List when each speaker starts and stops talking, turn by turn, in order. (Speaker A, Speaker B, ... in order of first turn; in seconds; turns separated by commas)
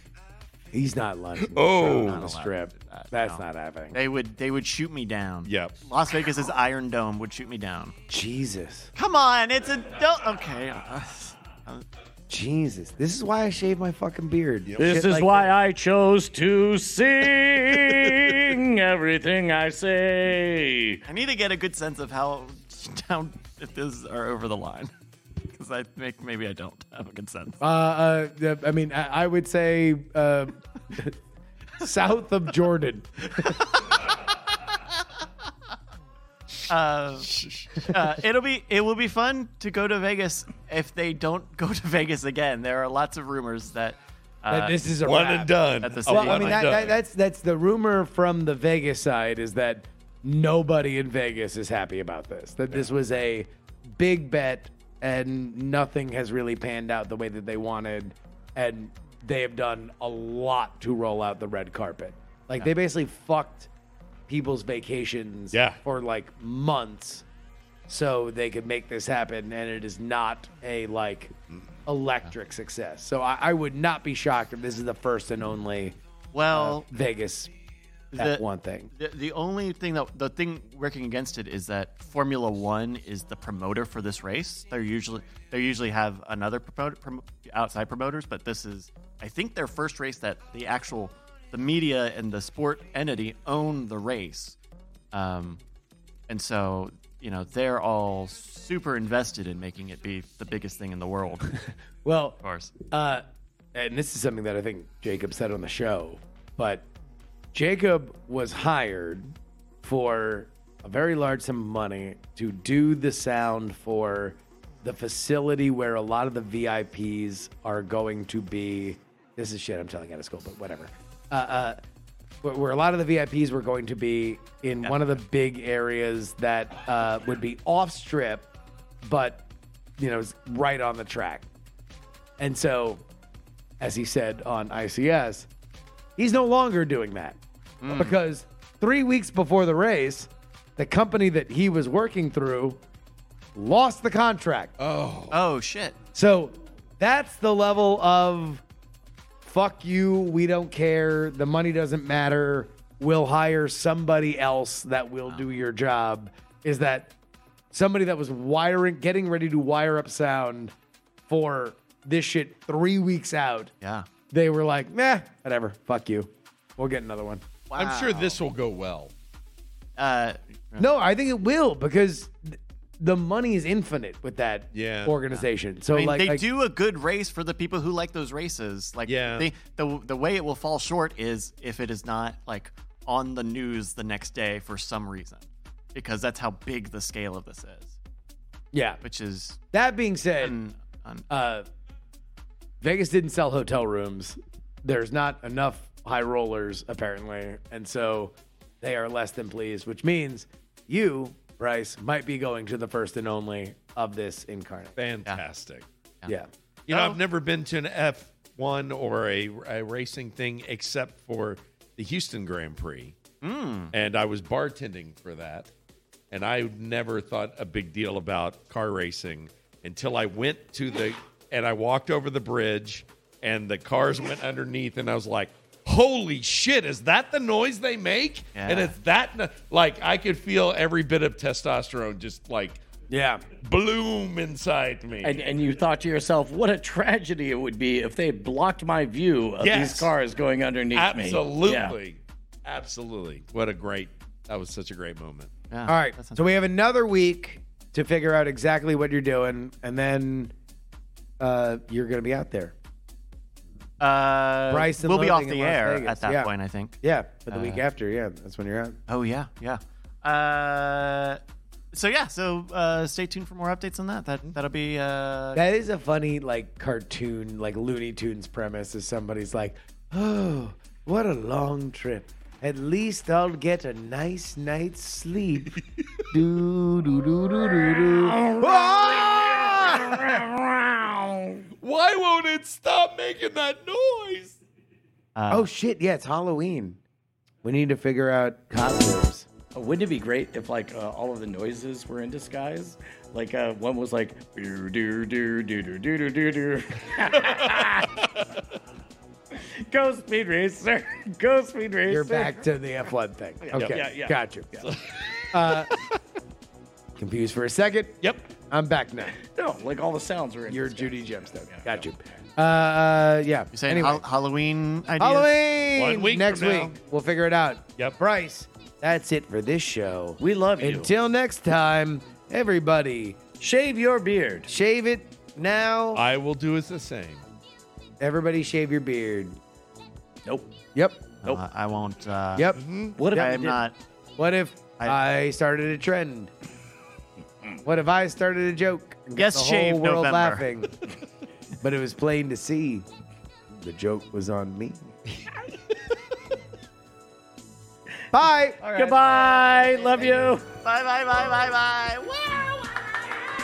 Speaker A: 0.7-4.0, Speaker B: 1.4-2.3, Speaker C: 1.8-7.9, Speaker B: 5.4-5.7, Speaker A: 8.1-8.9, Speaker C: 8.9-11.8, Speaker A: 12.3-15.5, Speaker B: 14.6-15.0, Speaker D: 14.8-21.0, Speaker C: 21.1-24.9, Speaker C: 25.5-27.6, Speaker A: 27.6-31.1, Speaker A: 31.8-33.6, Speaker C: 33.4-34.0, Speaker C: 36.7-44.8, Speaker B: 37.3-38.0, Speaker A: 44.5-45.5, Speaker B: 45.0-47.0, Speaker C: 45.8-46.9, Speaker A: 46.0-63.7, Speaker A: 64.3-67.2, Speaker B: 65.5-65.8, Speaker A: 67.9-71.3, Speaker A: 71.8-76.0, Speaker C: 76.3-76.9, Speaker A: 76.5-77.5, Speaker C: 78.1-78.4, Speaker A: 78.2-78.9, Speaker C: 78.9-94.6, Speaker C: 95.1-95.6, Speaker C: 96.3-101.6, Speaker A: 102.0-106.8, Speaker C: 102.4-102.7, Speaker A: 107.5-121.8, Speaker A: 122.4-128.5, Speaker C: 124.8-125.1, Speaker A: 129.0-129.4, Speaker A: 130.0-131.4, Speaker A: 132.4-133.0, Speaker A: 133.8-135.5, Speaker A: 136.2-142.8, Speaker C: 137.8-138.2, Speaker A: 143.5-144.7, Speaker B: 144.8-145.4, Speaker C: 145.3-145.9, Speaker A: 146.1-148.6, Speaker A: 149.4-157.1, Speaker A: 157.7-160.7, Speaker A: 161.3-163.7, Speaker C: 163.8-164.1, Speaker A: 164.3-167.4, Speaker C: 167.7-168.4, Speaker B: 167.8-169.1, Speaker C: 170.0-170.9, Speaker A: 170.8-176.4, Speaker B: 174.7-175.2, Speaker C: 175.9-187.9, Speaker B: 179.1-179.5, Speaker A: 188.7-189.0, Speaker C: 189.0-189.6, Speaker A: 189.7-190.6, Speaker C: 190.4-191.2, Speaker A: 191.3-191.7, Speaker A: 192.8-204.9, Speaker B: 205.0-205.8, Speaker B: 206.9-213.2, Speaker C: 206.9-207.2, Speaker C: 213.4-213.9, Speaker B: 213.9-215.7, Speaker B: 216.3-232.8, Speaker C: 228.5-228.9, Speaker A: 233.1-233.4, Speaker B: 233.6-235.4, Speaker D: 235.2-241.9, Speaker B: 239.6-240.1, Speaker B: 240.9-245.5, Speaker C: 245.7-246.5, Speaker A: 245.9-250.5, Speaker A: 251.4-252.7, Speaker C: 254.0-256.9, Speaker A: 254.7-256.5, Speaker A: 257.0-259.0, Speaker C: 257.5-257.8, Speaker C: 259.1-261.4, Speaker C: 261.9-265.6, Speaker A: 265.6-275.8, Speaker A: 276.3-280.4, Speaker D: 278.2-281.6, Speaker B: 281.8-284.6, Speaker C: 285.3-285.7, Speaker A: 285.5-287.0, Speaker A: 287.6-289.5, Speaker D: 289.7-298.2, Speaker B: 297.4-297.8, Speaker D: 299.5-302.6, Speaker A: 302.1-304.8, Speaker B: 303.7-304.0, Speaker D: 303.8-304.8, Speaker B: 304.8-306.1, Speaker A: 305.5-305.9, Speaker A: 307.1-309.4, Speaker D: 309.4-311.3, Speaker A: 310.7-314.2, Speaker C: 313.7-315.5, Speaker A: 315.2-323.4, Speaker B: 315.9-316.9, Speaker D: 320.4-321.1, Speaker D: 323.6-324.7, Speaker A: 324.7-326.2, Speaker B: 326.1-327.4, Speaker A: 328.2-329.6, Speaker D: 330.4-330.7, Speaker A: 330.9-331.3, Speaker C: 331.4-332.7, Speaker A: 332.5-332.8, Speaker B: 332.8-333.2, Speaker D: 333.2-333.8, Speaker C: 333.3-333.9, Speaker A: 334.4-336.5, Speaker A: 337.8-340.9, Speaker C: 339.4-340.6, Speaker A: 341.8-343.1, Speaker A: 343.7-345.1, Speaker A: 348.3-348.8, Speaker C: 348.8-353.0, Speaker D: 348.9-350.6